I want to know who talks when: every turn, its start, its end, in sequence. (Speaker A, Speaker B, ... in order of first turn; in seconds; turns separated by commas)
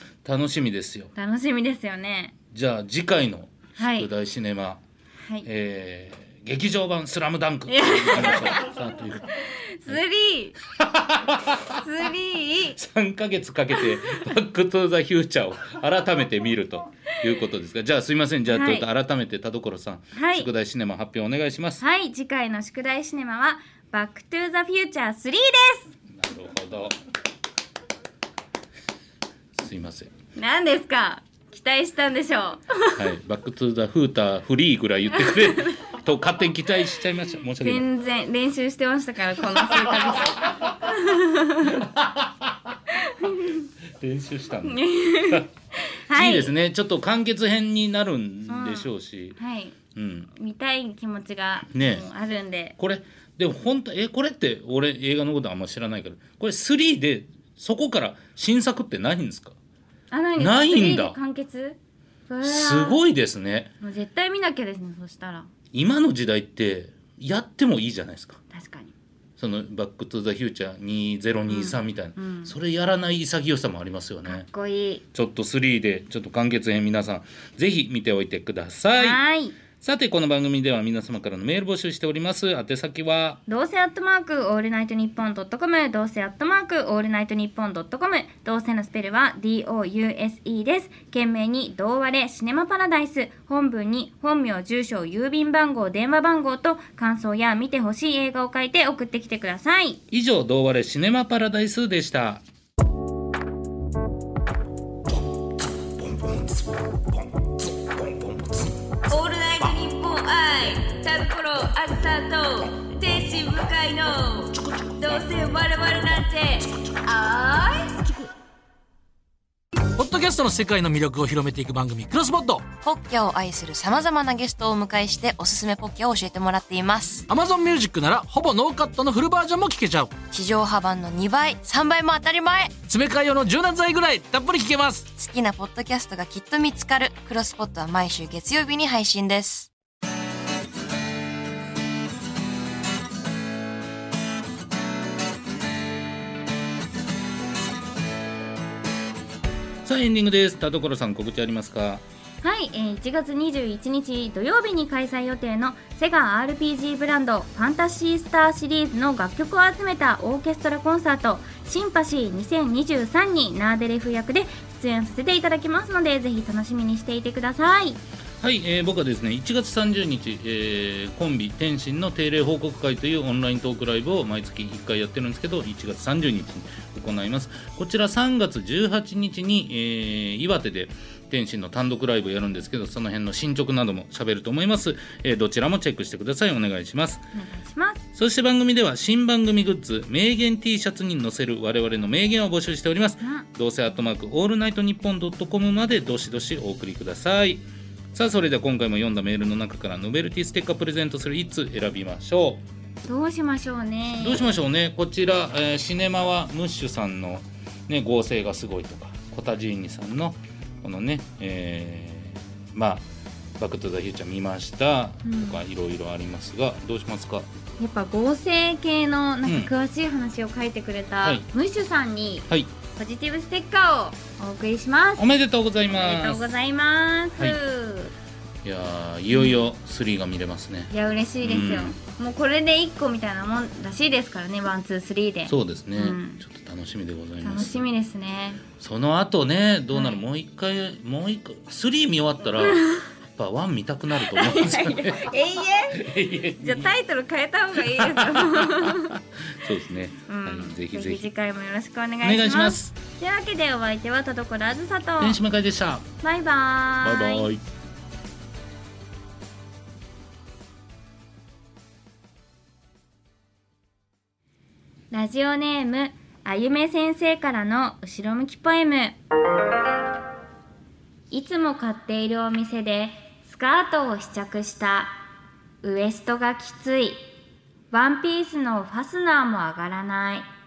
Speaker A: 0.2-1.1, Speaker B: 1.1-2.4, Speaker A: 2.5-4.8, Speaker B: 3.8-4.1, Speaker A: 5.4-10.0, Speaker B: 7.7-8.7, Speaker B: 9.3-10.6, Speaker A: 10.6-11.8, Speaker B: 11.7-12.8, Speaker A: 12.7-21.8, Speaker B: 18.5-18.9, Speaker B: 20.1-20.5, Speaker B: 21.8-25.9, Speaker A: 26.1-27.0, Speaker A: 29.6-30.1, Speaker B: 30.4-33.1, Speaker A: 33.0-37.9, Speaker B: 35.3-35.8, Speaker B: 37.6-41.8, Speaker A: 39.8-40.3, Speaker A: 41.6-42.8, Speaker B: 42.9-43.7, Speaker A: 43.9-45.5, Speaker B: 44.6-46.5, Speaker A: 46.1-49.4, Speaker B: 48.5-49.8, Speaker A: 49.9-50.3, Speaker B: 50.3-52.8, Speaker A: 51.7-52.1, Speaker A: 52.8-59.6, Speaker B: 60.1-61.8, Speaker A: 60.4-61.2, Speaker B: 62.3-63.0, Speaker A: 62.4-63.7, Speaker B: 63.8-65.5, Speaker A: 65.7-68.4, Speaker B: 68.5-68.9, Speaker A: 69.4-74.5, Speaker B: 71.5-72.5, Speaker B: 74.3-75.0, Speaker A: 75.1-79.2, Speaker B: 78.9-79.6, Speaker A: 79.8-83.4, Speaker B: 83.5-100.0, Speaker A: 100.1-102.4, Speaker A: 105.3-109.0, Speaker B: 109.1-118.2, Speaker A: 114.6-115.3, Speaker C: 120.0-122.7, Speaker D: 122.8-127.3, Speaker C: 127.3-130.1, Speaker D: 130.3-132.8, Speaker C: 132.9-135.1, Speaker D: 135.2-139.7, Speaker A: 149.8-152.0, Speaker B: 152.4-168.0, Speaker A: 168.4-187.2, Speaker B: 187.3-188.0, Speaker A: 188.2-202.6, Speaker B: 203.1-204.6, Speaker A: 204.2-213.1, Speaker A: 213.6-217.5, Speaker B: 215.2-215.6, Speaker B: 217.8-225.3, Speaker A: 219.4-219.7, Speaker A: 225.2-226.5, Speaker B: 225.9-228.1, Speaker A: 228.6-230.9, Speaker B: 229.3-229.7, Speaker B: 230.9-236.4, Speaker A: 231.4-232.0, Speaker A: 235.5-237.8, Speaker B: 237.4-238.6, Speaker A: 238.8-245.4, Speaker B: 239.9-240.2, Speaker B: 242.6-243.1, Speaker B: 244.2-249.2, Speaker A: 245.9-246.9, Speaker A: 247.8-251.3, Speaker B: 250.3-255.4, Speaker A: 252.2-253.0, Speaker A: 255.2-256.1, Speaker B: 256.2-257.5, Speaker A: 257.0-257.6, Speaker B: 265.1-269.2, Speaker B: 271.3-275.2, Speaker B: 275.8-277.2, Speaker B: 277.9-280.5